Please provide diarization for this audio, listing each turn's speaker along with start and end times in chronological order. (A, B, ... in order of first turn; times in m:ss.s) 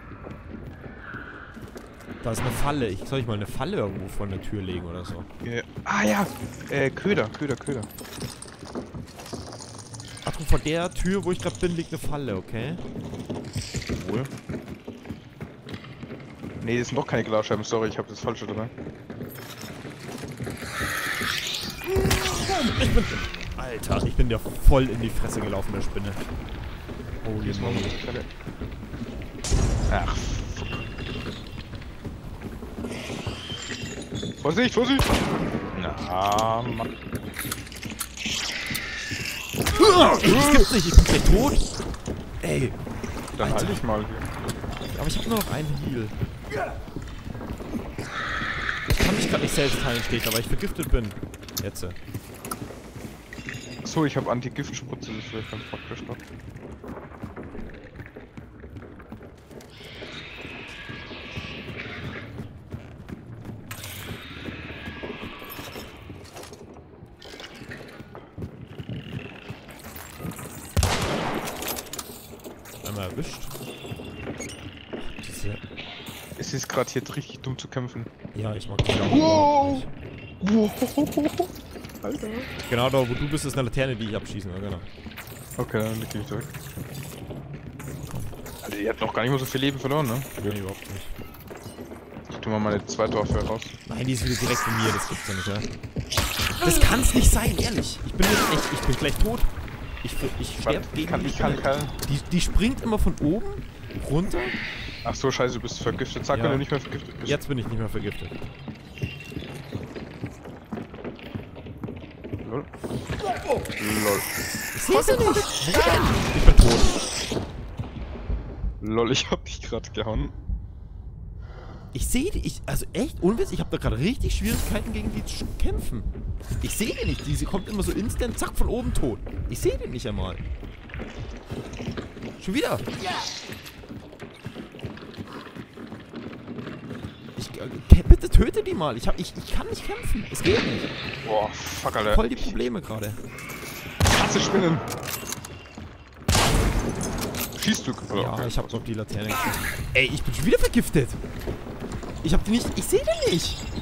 0:02.2-0:05.3 A
0:05.4-0:07.9 B
0:10.2-0:12.8 A
0:13.9-0:14.3 B
0:16.6-0:18.7 B
0:21.9-0:26.2 A
0:27.2-0:27.9 A
0:27.4-0:28.3 B
0:29.9-0:30.9 B
0:34.4-0:35.1 B
0:35.7-0:36.8 B
0:39.8-0:41.8 A
0:40.0-0:40.7 B
0:42.4-0:42.8 A
0:43.4-0:44.2 B
0:43.4-0:43.8 A
0:44.9-0:46.2 A
0:48.9-0:52.0 A
0:53.8-0:56.2 B
1:12.8-1:13.5 A
1:15.0-1:15.6 A
1:16.4-1:18.1 B
1:18.3-1:19.9 A
1:19.0-1:19.8 B
1:20.4-1:22.5 B
1:22.7-1:24.9 A
1:25.6-1:26.5 B
1:28.6-1:30.6 B
1:30.4-1:31.2 A
1:32.3-1:33.8 B
1:33.8-1:35.7 A
1:36.6-1:44.6 A
1:40.6-1:41.9 B
1:45.0-1:47.4 B
1:46.3-1:46.6 A
1:47.2-1:48.4 A
1:52.4-1:52.7 B
1:53.8-1:54.3 B
1:54.7-1:57.0 A
1:58.8-2:00.3 B
2:01.9-2:06.1 A
2:06.6-2:10.4 A
2:12.4-2:12.9 A
2:17.4-2:20.9 A
2:21.2-2:22.6 B
2:22.1-2:23.2 A
2:24.0-2:24.9 B
2:27.6-2:28.8 B
2:28.1-2:31.2 A
2:32.2-2:33.6 A